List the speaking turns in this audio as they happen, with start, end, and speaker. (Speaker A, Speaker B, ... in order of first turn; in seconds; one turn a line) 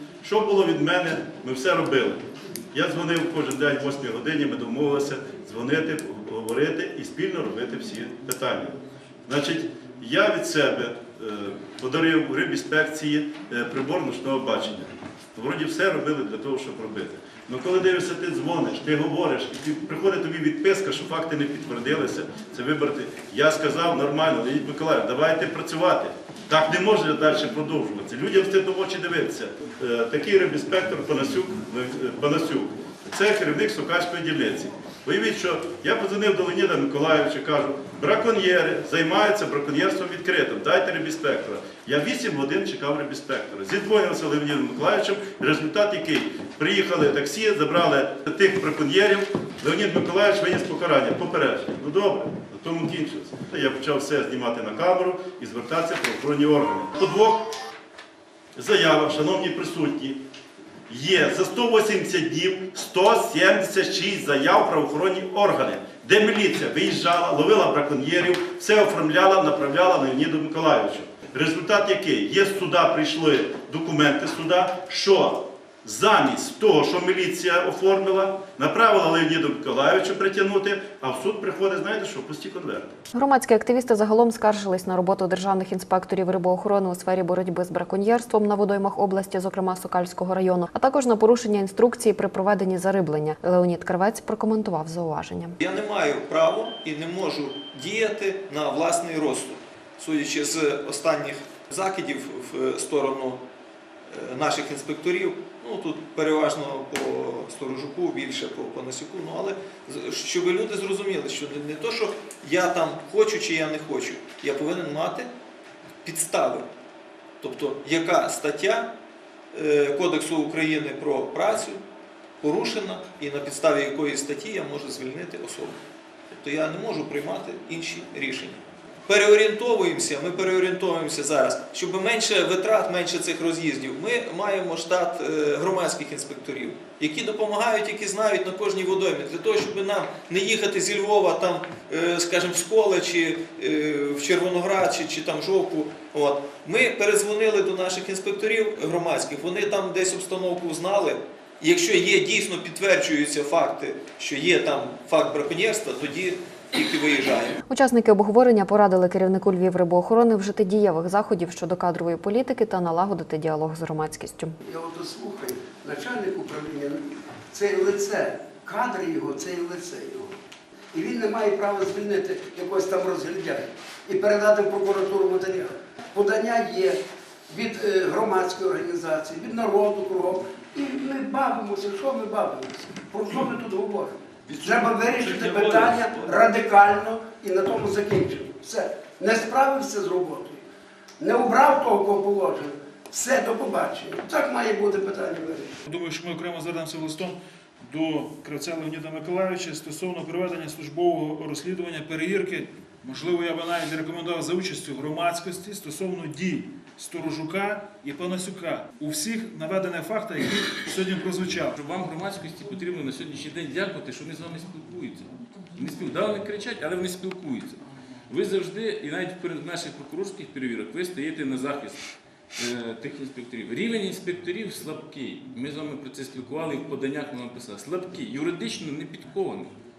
Speaker A: 0.2-2.2
Speaker A: 2.7-57.5
Speaker A: 58.6-60.2
Speaker A: 60.9-83.0
Speaker B: 83.1-95.6
Speaker C: 95.6-103.4
Speaker C: 104.1-115.3
Speaker C: 116.0-116.7
Speaker C: 117.4-118.9
Speaker C: 119.5-121.8
Speaker C: 122.4-125.8
Speaker C: 126.3-157.6
Speaker B: 157.7-164.6
Speaker D: 164.7-170.3
Speaker D: 170.9-190.6
Speaker C: 184.5-186.4
Speaker D: 191.2-195.8
Speaker E: 195.9-211.8
Speaker F: 211.8-222.0
Speaker F: 222.6-229.7